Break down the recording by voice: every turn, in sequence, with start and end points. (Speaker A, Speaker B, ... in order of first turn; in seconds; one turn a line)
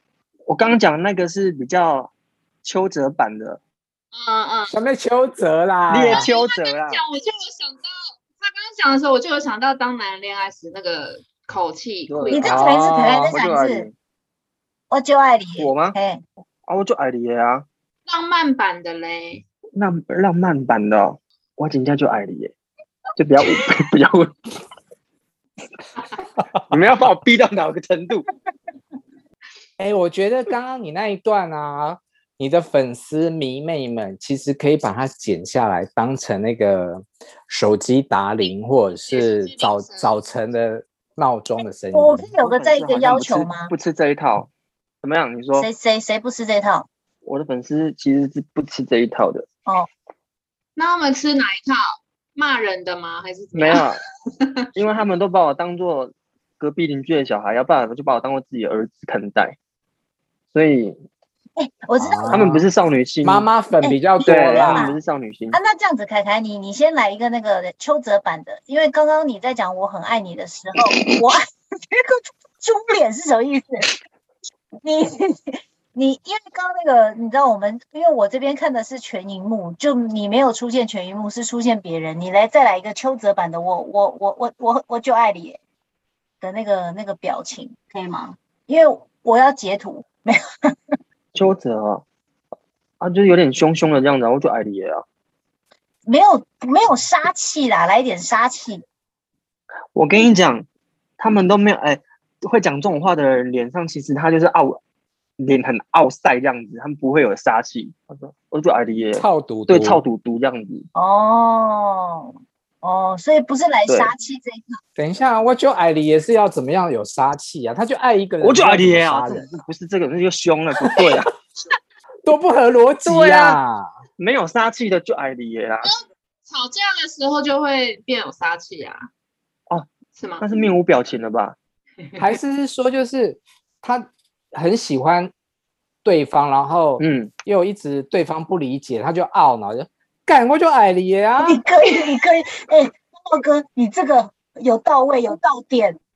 Speaker A: 0.5-2.1
Speaker A: 2.6-3.6
Speaker B: 4.1-4.8
Speaker C: 4.7-6.3
Speaker A: 5.9-7.0
Speaker B: 6.1-12.6
Speaker A: 12.1-13.9
Speaker D: 12.3-13.9
Speaker C: 12.5-13.3
Speaker D: 14.9-16.2
Speaker A: 15.6-16.0
Speaker A: 16.7-17.7
Speaker B: 18.1-19.4
Speaker A: 19.8-22.5
Speaker A: 23.2-24.4
Speaker A: 26.7-28.3
Speaker C: 29.8-42.3
Speaker B: 38.5-40.1
Speaker D: 41.9-43.7
Speaker A: 42.4-44.5
Speaker A: 45.0-45.7
Speaker D: 45.5-46.9
Speaker A: 47.2-49.5
Speaker B: 50.8-53.8
Speaker A: 53.5-54.0
Speaker A: 54.8-59.6
Speaker A: 60.5-61.0
Speaker D: 61.6-62.5
Speaker C: 62.0-62.6
Speaker A: 62.3-63.5
Speaker C: 63.2-64.9
Speaker D: 63.8-65.0
Speaker A: 64.2-65.6
Speaker D: 65.5-73.9
Speaker D: 74.8-85.6
Speaker D: 86.4-90.9
Speaker A: 91.3-92.0
Speaker A: 93.0-95.0
Speaker D: 96.1-98.8
Speaker A: 100.0-100.7
Speaker A: 101.2-104.8
Speaker A: 105.4-110.9
Speaker C: 109.2-110.0
Speaker D: 111.0-114.8
Speaker C: 115.0-119.5
Speaker A: 118.4-121.3
Speaker C: 122.2-123.9
Speaker A: 123.0-123.6
Speaker A: 124.2-125.9
Speaker B: 125.8-129.1
Speaker B: 130.2-130.4
Speaker A: 130.4-131.6
Speaker C: 132.2-135.3
Speaker C: 136.0-141.6
Speaker A: 137.0-137.3
Speaker D: 141.4-146.0